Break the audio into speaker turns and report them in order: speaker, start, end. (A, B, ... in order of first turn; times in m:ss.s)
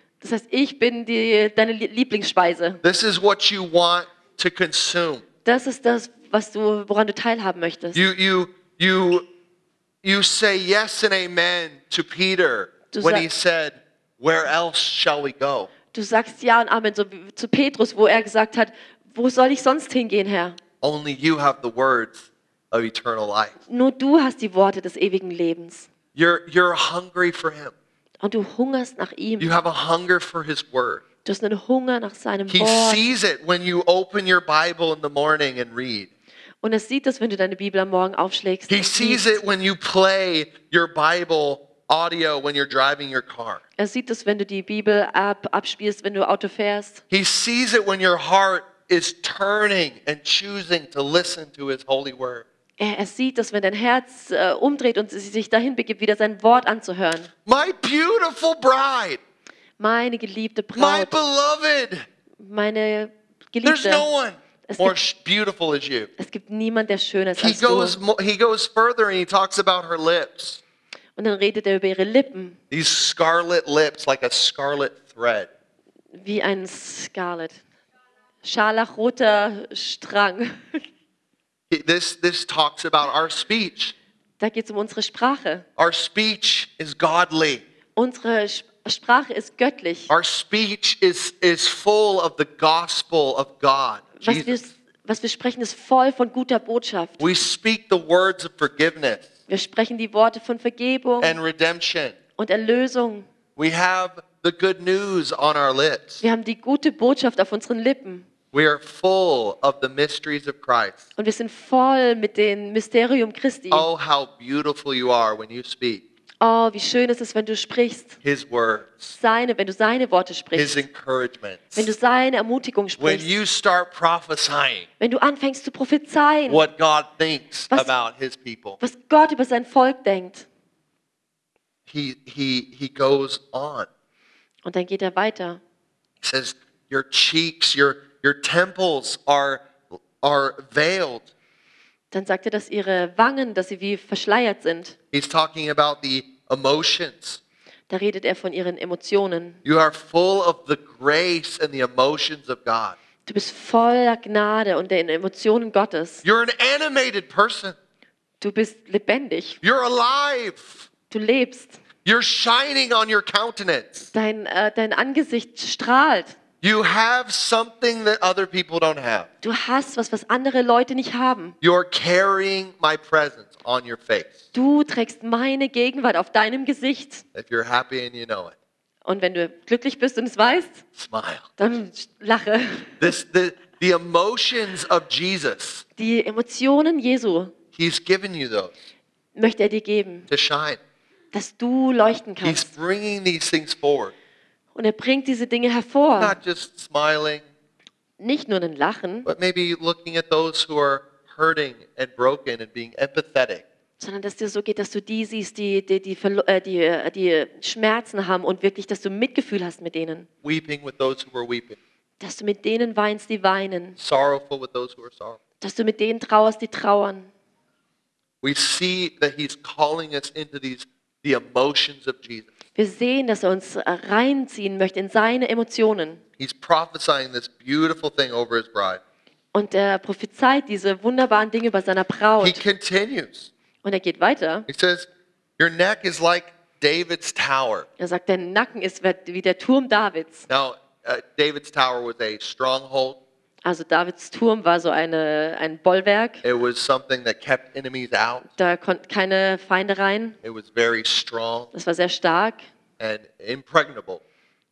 0:00.2-0:02.8 A
0:02.8-0:05.2 B
0:05.4-0:08.0 A
0:07.9-0:09.3 B
0:10.0-0:15.7 B
0:12.9-0:13.3 A
0:15.9-0:20.6 A
0:20.8-0:23.5 B
0:23.7-0:25.9 A
0:26.1-0:27.7 B
0:28.2-0:29.5 A
0:29.4-0:31.0 B
0:31.2-0:33.0 A
0:32.5-0:36.1 B
0:36.6-0:39.2 A
0:38.7-0:43.6 B
0:43.8-0:47.0 A
0:47.1-0:52.4 B
0:52.8-0:57.3 A
0:57.4-0:59.2 B
0:59.8-1:01.1 A
1:00.8-1:02.0 B
1:02.4-1:04.0 A
1:03.6-1:06.1 B
1:04.7-1:05.0 A
1:06.2-1:08.0 A
1:07.4-1:10.6 B
1:11.2-1:12.6 A
1:12.7-1:15.5 B
1:16.1-1:17.6 A
1:18.4-1:20.8 A
1:21.7-1:23.9 B
1:24.4-1:25.6 A
1:25.8-1:27.6 B
1:28.0-1:30.1 A
1:30.1-1:34.6 B
1:34.2-1:37.2 A
1:37.2-1:39.3 B
1:39.5-1:41.4 A
1:41.2-1:42.2 B
1:42.4-1:43.3 A
1:43.6-1:46.2 B
1:46.2-1:48.2 A
1:48.5-1:51.0 B
1:51.2-1:53.9 A
1:53.7-1:56.0 B
1:56.4-1:58.2 A
1:58.2-1:59.2 B
1:59.2-2:00.8 A
2:00.5-2:01.9 B
2:01.8-2:03.3 A
2:03.0-2:04.9 B
2:05.0-2:06.6 A
2:06.5-2:08.8 B
2:08.8-2:10.4 A
2:11.9-2:13.9 B
2:14.6-2:15.6 A
2:16.2-2:21.3 B
2:22.1-2:24.9 A
2:25.1-2:27.4 B
2:27.9-2:29.6 A
2:29.6-2:33.0 B
2:33.2-2:36.2 A
2:36.2-2:37.8 B
2:38.4-2:39.6 A
2:39.6-2:40.9 B
2:41.1-2:41.8 A
2:42.0-2:44.1 B
2:44.1-2:46.4 A
2:46.6-2:49.3 B
2:49.4-2:51.6 A
2:51.6-2:54.4 B
2:54.5-2:57.2 A
2:57.3-2:58.5 B
2:59.0-3:00.8 A
3:00.9-3:01.4 B
3:01.6-3:03.0 A
3:03.0-3:05.8 B
3:06.0-3:07.5 A
3:07.7-3:08.7 B
3:09.3-3:10.3 A
3:10.3-3:10.8 B
3:11.3-3:12.7 A
3:12.4-3:14.1 B
3:14.7-3:16.4 A
3:16.2-3:17.4 B
3:18.2-3:19.3 A
3:19.2-3:23.6 B
3:24.0-3:30.3 A
3:30.4-3:31.8 B
3:32.2-3:34.0 A
3:34.0-3:35.4 B
3:35.6-3:37.3 A
3:38.4-3:42.5 B
3:42.8-3:46.2 A
3:46.4-3:49.0 B
3:49.5-3:52.6 A
3:52.4-3:53.5 B
3:53.8-3:54.7 A
3:54.7-3:55.1 B
3:55.6-3:57.9 B
3:58.0-4:00.5 A
4:00.5-4:03.2 B
4:03.6-4:06.4 A
4:06.4-4:08.5 B
4:08.6-4:10.4 A
4:10.4-4:11.7 B
4:11.7-4:12.6 A
4:13.0-4:14.2 B